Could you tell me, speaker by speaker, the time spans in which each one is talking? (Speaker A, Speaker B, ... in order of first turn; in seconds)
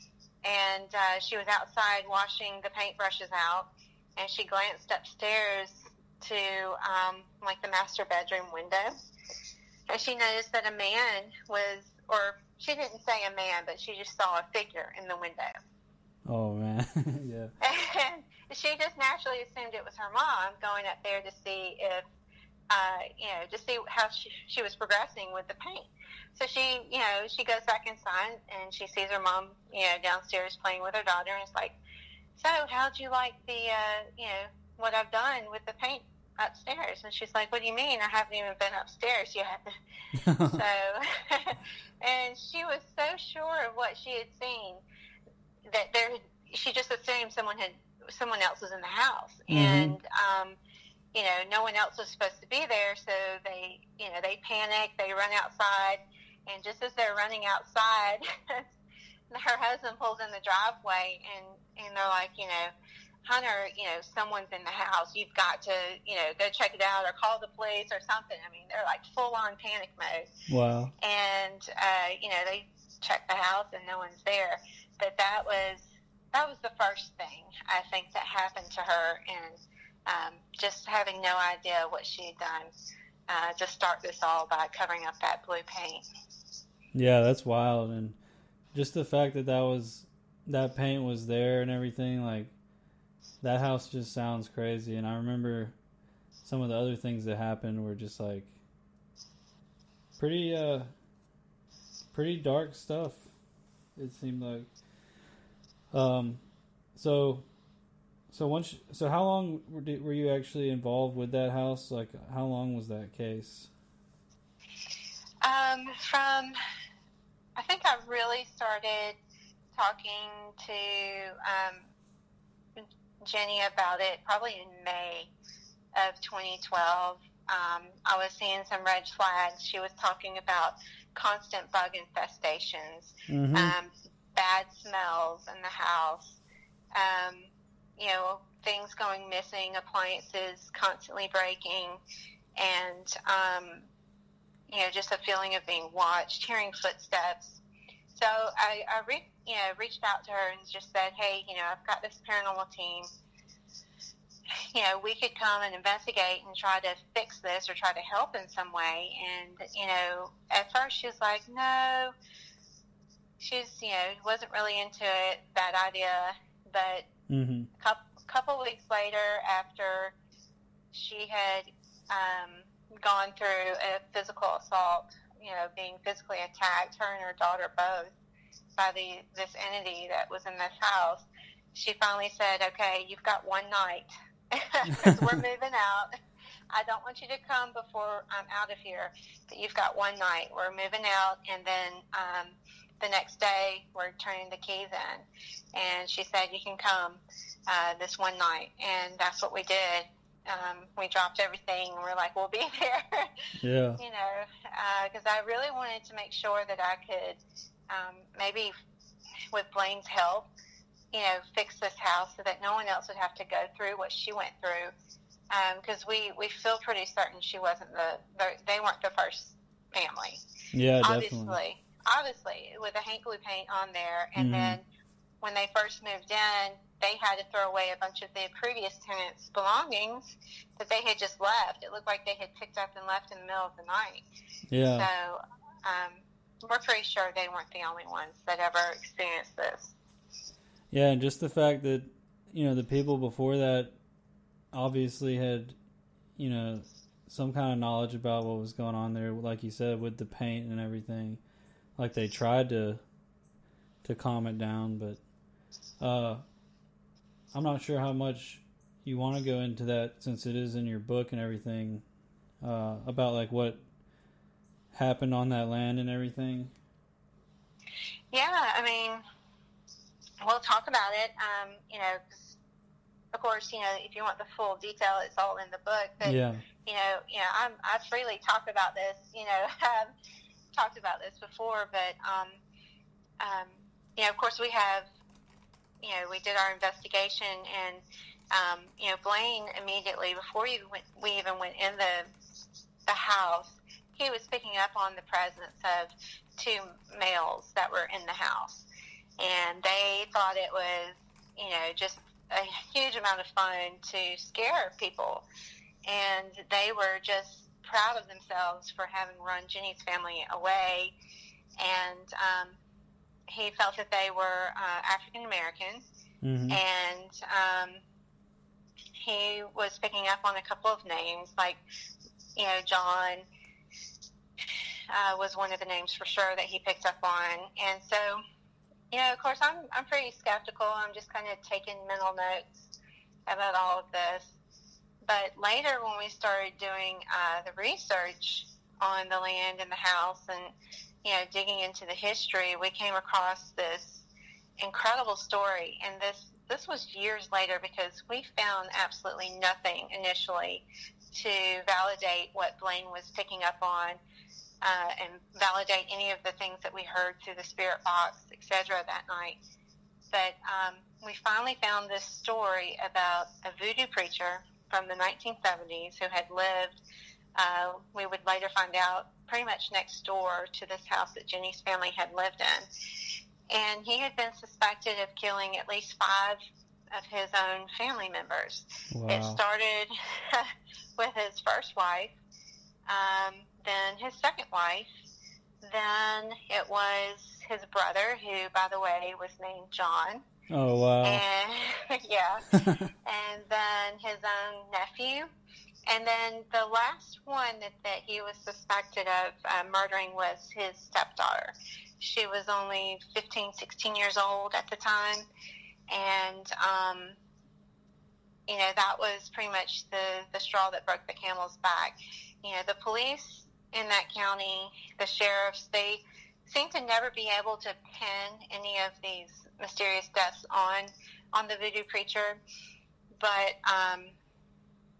Speaker A: 0.4-8.9, 9.9-15.5, 17.6-22.1, 22.7-31.8, 32.4-39.6, 40.5-44.8, 45.7-50.6, 51.1-58.7, 59.3-62.7, 63.2-70.3, 71.0-82.7, 83.3-86.0, 115.4-116.5, 117.6-119.2, 119.7-121.9, 122.8-125.3, 126.0-136.4, 136.9-142.0, 142.6-143.9, 144.7-147.6, 148.1-153.1, 154.7-162.1, 163.4-167.1, 167.8-170.1, 170.9-178.1, 178.8-186.1, 186.7-203.3, 204.0-208.7, 209.5-210.5, 211.1-214.9, 215.5-220.4, 221.0-224.8, 225.4-234.2, 234.9-239.9, 268.3-269.2, 270.4-272.6, 273.3-280.1, 280.8-282.6, 283.4-285.0, 286.0-292.3, 293.1-298.9, 299.4-305.4, 306.1-311.1, 311.8-312.8, 313.5-316.0, 316.7-318.0, 319.2-321.8, 322.6-323.4, 325.1-328.4, 329.1-332.9, 333.5-334.5, 335.2-340.7, 341.2-344.3, 344.8-354.2, 354.8-359.6, 360.3-367.0, 367.6-372.9, 373.7-376.6, 377.1-382.3, 383.1-385.1, 385.8-390.4, 391.2-392.7, 393.2-395.5, 396.1-405.4, 406.1-407.4, 408.7-422.6, 423.4-424.3
Speaker B: 16.3-17.5, 40.2-40.6, 49.5-50.0, 70.5-70.9, 86.9-88.2, 88.7-92.5, 93.4-95.8, 96.4-98.5, 100.2-100.9, 102.1-103.3, 104.0-104.7, 105.9-106.4, 106.9-107.4, 108.3-113.7, 133.3-133.7, 167.3-167.7, 203.6-204.0, 220.7-221.6, 224.3-224.8, 234.7-235.1, 240.9-243.9, 244.7-245.8, 246.4-251.4, 252.0-253.0, 254.0-255.2, 256.0-256.4, 257.5-262.0, 262.6-263.8, 264.9-266.7, 276.2-276.6, 316.4-316.8, 379.1-379.6, 390.7-391.4, 392.8-393.1